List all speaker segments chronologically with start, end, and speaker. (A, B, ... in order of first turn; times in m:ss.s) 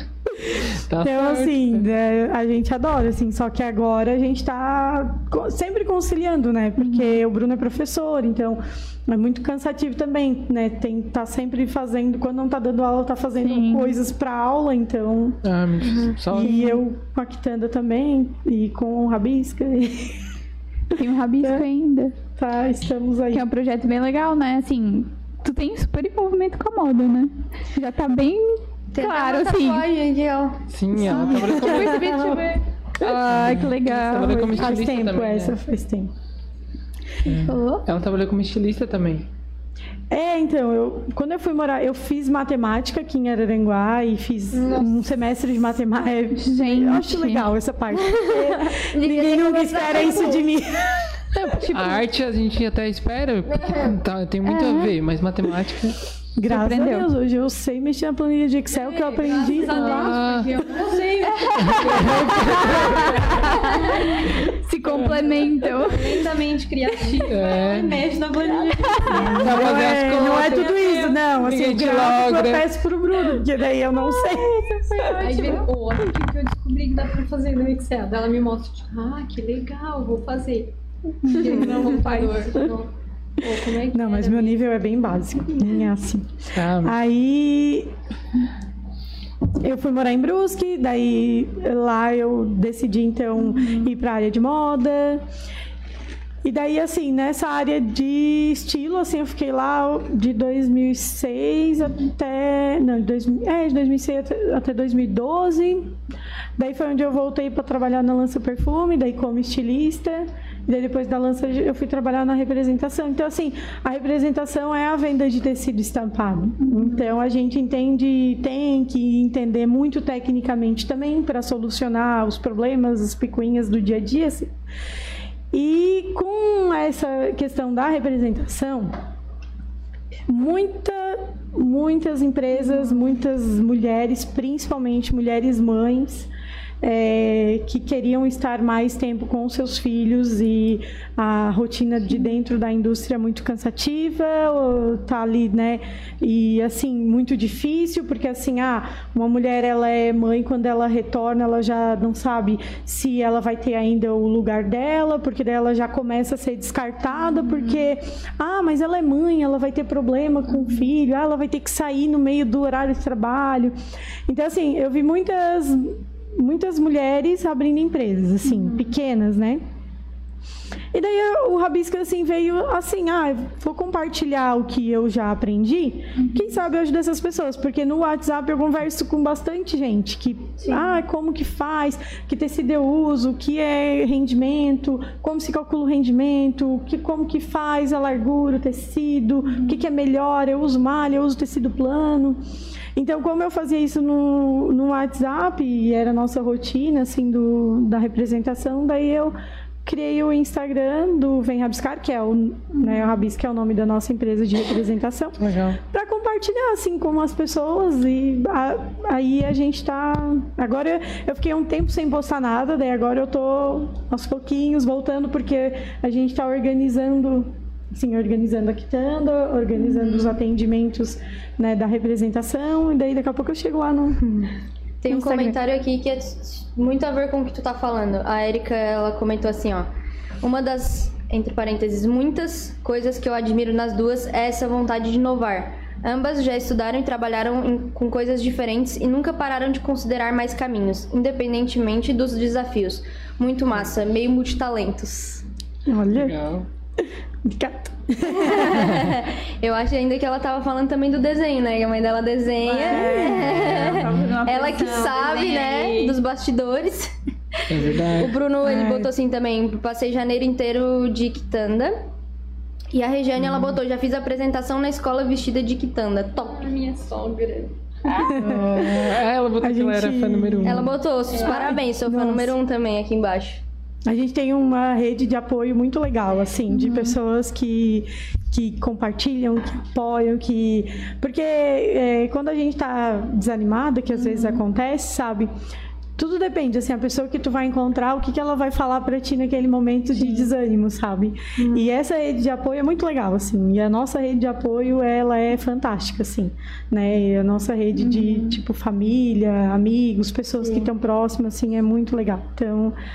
0:00.3-0:15.4 A
0:00.9-0:01.8 B
0:06.8-0:07.2 C
0:13.4-0:14.0 C
0:15.4-0:16.6 B
0:16.3-0:20.2 A
0:16.4-0:16.8 C
0:20.9-0:22.2 C
0:21.4-0:21.6 A
0:22.4-0:23.5 A
0:23.3-0:29.8 C
0:28.9-0:30.6 D
0:30.7-0:32.2 B
0:31.0-0:32.5 A
0:31.1-0:34.8 C
0:33.0-0:35.6 B
0:34.1-0:36.1 A
0:37.2-0:39.3 B
0:37.5-0:37.8 D
0:40.1-0:51.1 A
0:44.5-0:45.0 D
0:46.4-0:47.4 C
0:47.9-0:50.5 D
0:51.4-0:56.0 B
0:53.5-0:54.0 D
0:54.4-0:54.9 C
0:56.4-1:00.8 A
0:56.5-0:57.1 C
0:58.7-1:04.1 E
0:59.7-1:00.5 B
1:01.6-1:03.4 B
1:01.9-1:06.2 C
1:04.9-1:09.7 E
1:07.3-1:07.9 B
1:08.7-1:09.4 C
1:09.0-1:15.6 A
1:09.1-1:12.6 B
1:10.2-1:11.1 E
1:15.0-1:15.6 C
1:15.1-1:20.7 E
1:21.2-1:24.8 E
1:21.3-1:22.6 C
1:23.9-1:27.9 A
1:26.5-1:27.0 B
1:29.6-1:35.2 A
1:33.4-1:33.9 C
1:36.4-1:46.0 A
1:46.6-2:04.5 A
1:56.6-1:57.1 C
2:05.5-2:08.9 A
2:10.3-2:16.3 A
2:16.8-2:43.8 A
2:37.1-2:37.9 C
2:44.3-2:49.6 A
2:48.4-2:48.9 C
2:50.9-3:12.4 A
2:56.2-2:56.4 C
3:13.0-3:44.4 A
3:22.7-3:23.2 C
3:25.4-3:25.8 B
3:45.0-3:49.9 D
3:45.1-3:45.6 A
3:50.4-4:05.4 D
4:05.9-4:06.4 A
4:06.1-4:06.7 B
4:07.0-4:09.1 A
4:08.3-4:17.1 D
4:12.6-4:16.2 C
4:12.9-4:14.1 A
4:17.7-4:18.4 B
4:17.8-4:22.0 D
4:18.6-4:19.1 A
4:22.9-4:26.7 D
4:26.4-4:27.8 E
4:28.2-4:30.9 A
4:28.3-4:31.0 B
4:30.6-4:33.6 D
4:31.3-4:31.8 E
4:31.4-4:32.5 A
4:34.1-4:45.5 A
4:36.7-4:37.2 C
4:44.1-4:44.6 C
4:46.2-5:03.0 A
4:50.2-4:50.5 C
4:58.0-4:58.6 C